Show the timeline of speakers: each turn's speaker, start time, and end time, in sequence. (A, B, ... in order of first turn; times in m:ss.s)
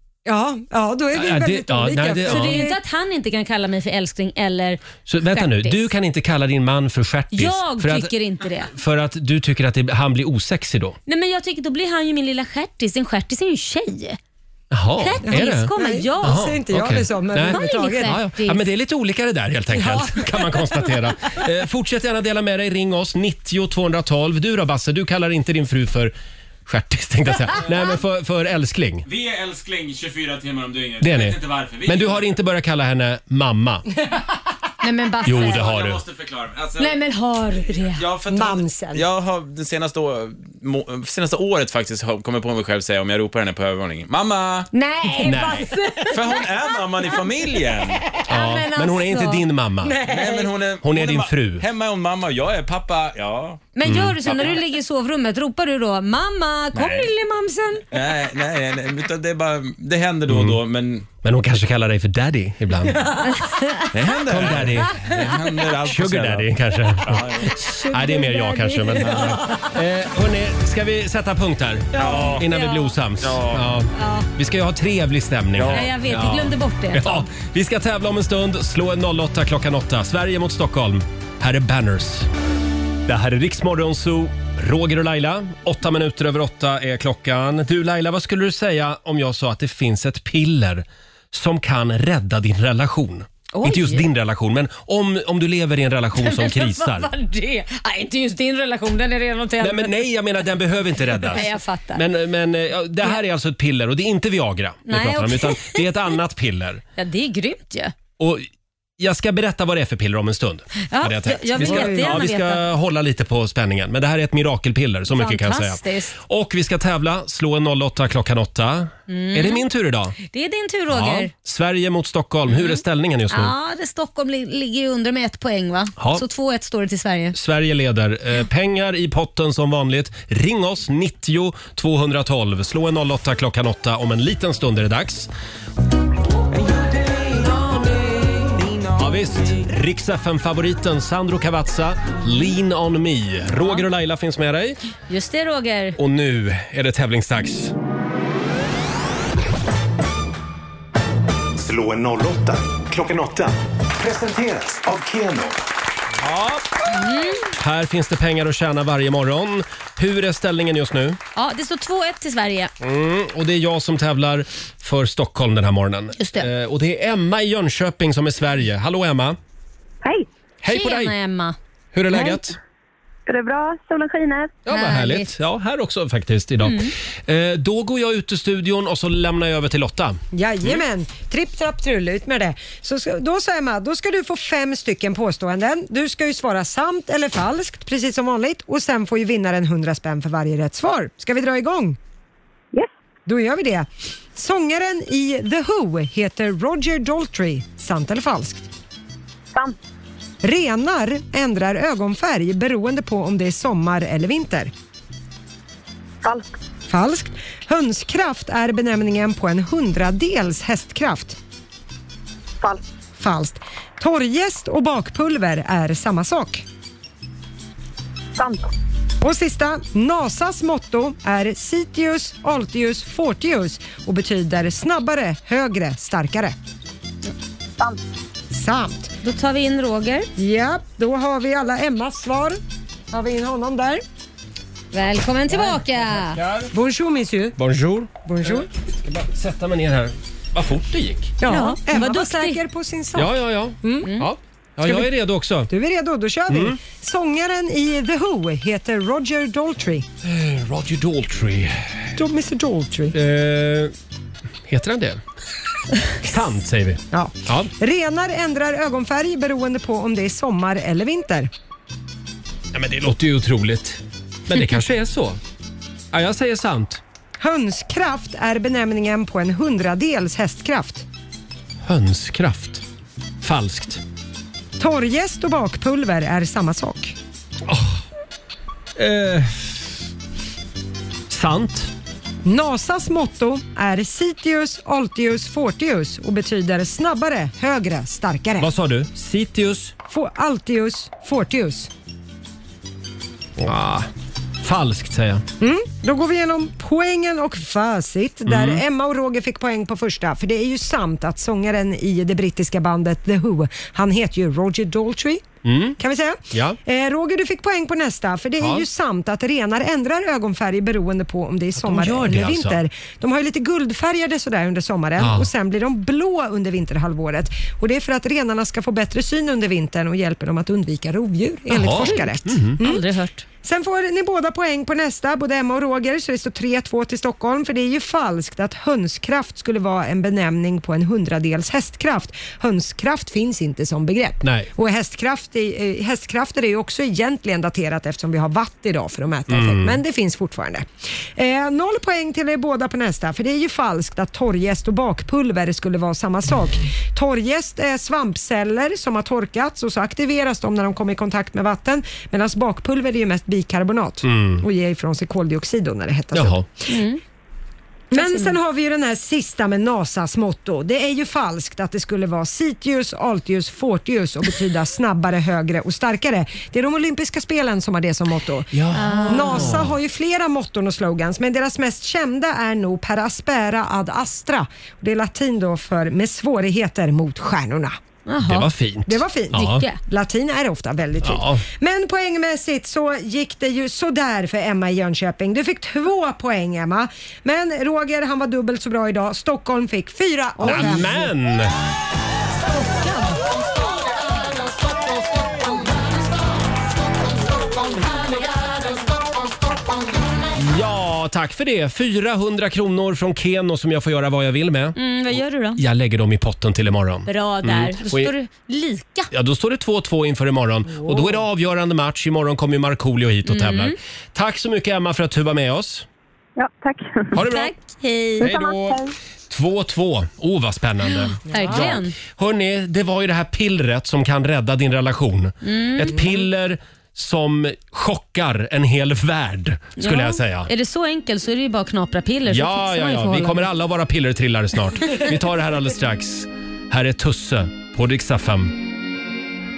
0:00.2-0:02.8 A
0:01.1-0:02.6 B
0:02.2-0:05.9 C
0:05.0-0:08.1 B
0:07.3-0:08.7 C
0:08.7-0:11.0 B
0:11.1-0:14.2 C
0:14.7-0:26.1 B
0:15.0-0:16.5 C
0:15.3-0:18.2 A
0:17.4-0:18.6 C
0:19.7-0:20.4 A
0:26.6-0:29.0 B
0:29.0-0:32.3 D
0:31.0-0:33.8 B
0:34.8-0:35.7 C
0:35.2-0:36.0 B
0:35.2-0:36.9 D
0:36.8-0:38.0 C
0:37.9-0:44.7 D
0:38.3-0:39.0 A
0:44.7-0:46.4 C
0:45.1-0:46.1 A
0:45.2-0:45.7 B
0:46.1-0:48.0 D
0:48.3-0:50.0 B
0:48.3-0:49.4 C
0:49.8-0:50.5 A
0:50.0-0:53.6 D
0:50.8-0:51.6 B
0:53.8-0:57.8 C
0:53.8-0:54.2 B
0:54.2-0:54.6 D
0:56.7-0:57.1 D
0:57.9-1:01.1 D
1:00.3-1:00.6 B
1:01.2-1:03.3 B
1:03.3-1:03.9 C
1:03.9-1:07.5 D
1:04.3-1:05.1 B
1:05.8-1:22.3 B
1:07.6-1:09.0 C
1:09.0-1:09.4 D
1:11.9-1:12.4 A
1:12.0-1:12.5 D
1:12.4-1:12.9 C
1:13.2-1:13.7 D
1:13.9-1:14.3 C
1:15.6-1:15.8 D
1:15.7-1:17.3 C
1:23.1-1:37.1 B
1:33.5-1:34.0 C
1:36.2-1:40.1 C
1:39.6-1:46.8 B
1:41.1-1:42.0 C
1:44.8-1:45.8 C
1:47.0-1:47.9 C
1:48.2-1:48.5 B
1:49.0-2:00.2 B
1:50.8-1:52.7 C
1:51.6-1:52.1 A
1:55.1-1:56.2 C
1:59.1-1:59.6 C
2:00.3-2:01.3 C
2:00.9-2:03.5 B
2:02.5-2:07.4 C
2:06.0-2:06.2 B
2:07.3-2:15.3 B
2:16.5-2:19.5 D
2:18.9-2:24.8 B
2:25.1-2:26.0 C
2:26.0-2:27.7 B
2:31.7-2:32.6 E
2:33.1-2:33.5 E
2:34.1-2:35.4 E
2:36.2-2:36.9 B
2:36.9-2:37.4 C
2:37.5-2:41.2 B
2:41.4-2:42.7 C
2:42.8-2:49.4 B
2:46.2-2:46.5 C
2:50.6-2:51.1 B
2:50.7-2:51.6 C
2:51.9-2:52.6 B
2:53.3-2:54.5 F
2:54.6-3:00.2 B
2:54.7-2:55.3 C
2:56.6-2:56.9 C
3:00.3-3:12.0 A
3:13.2-3:18.7 A
3:20.4-3:24.7 A
3:26.2-3:26.5 F
3:26.9-3:31.4 A
3:33.2-3:36.6 A
3:38.4-3:38.7 F
3:39.2-3:46.5 A
3:48.5-3:49.1 A
3:49.2-3:50.3 C
3:50.4-3:52.6 A
3:53.1-3:54.0 A
3:54.9-3:56.4 C
3:55.5-3:56.7 B
3:56.7-3:57.6 A
3:57.6-4:01.3 B
3:58.2-3:58.7 A
4:01.4-4:04.1 A
4:01.4-4:02.6 C
4:03.1-4:05.7 B
4:04.0-4:04.3 C
4:04.8-4:05.1 A
4:05.7-4:10.0 A
4:06.5-4:06.8 B
4:10.2-4:11.9 B
4:12.2-4:13.1 A
4:13.1-4:13.9 B
4:14.7-4:15.2 B
4:16.2-4:17.7 B
4:17.1-4:21.5 A
4:22.7-4:25.4 B
4:26.1-4:27.0 B
4:27.4-4:31.0 A
4:31.8-4:32.8 B
4:33.4-4:34.0 B
4:34.8-4:37.2 A
4:37.6-4:38.0 B
4:39.0-4:39.9 B
4:41.3-4:41.9 B
4:42.4-4:48.7 A
4:48.6-4:49.9 B
4:50.1-4:51.9 A
4:53.6-4:54.1 B
4:54.6-4:55.4 B
4:55.6-5:05.4 A
4:58.4-4:58.8 B
5:05.6-5:06.0 B
5:06.0-5:23.0 A
5:06.5-5:06.8 B
5:08.6-5:08.9 B
5:11.8-5:12.8 B
5:15.2-5:15.5 B
5:21.7-5:22.8 B
5:22.8-5:23.4 C
5:23.6-5:56.6 A
5:34.4-5:34.7 B
5:39.5-5:40.0 B
5:54.2-5:54.6 B
5:56.3-5:56.6 B
5:56.9-5:57.2 C
5:58.1-6:18.0 A
5:58.1-5:58.6 C
6:08.7-6:10.0 B
6:08.9-6:09.8 C
6:18.3-6:18.7 C
6:18.4-6:19.8 B
6:19.1-6:31.3 A
6:19.5-6:20.0 C
6:21.2-6:21.6 B
6:30.6-6:31.7 B
6:40.6-6:48.3 B
6:45.0-6:45.8 C
6:47.2-6:49.3 C
6:49.3-6:56.0 B
6:53.4-6:54.0 C
6:56.6-6:57.4 F
6:57.3-6:57.8 B
6:57.4-6:58.5 C
6:58.4-7:10.7 B
6:58.4-6:59.1 F
7:01.5-7:02.0 A
7:01.5-7:02.1 C
7:05.6-7:06.2 C
7:10.0-7:13.6 C
7:12.5-7:18.8 B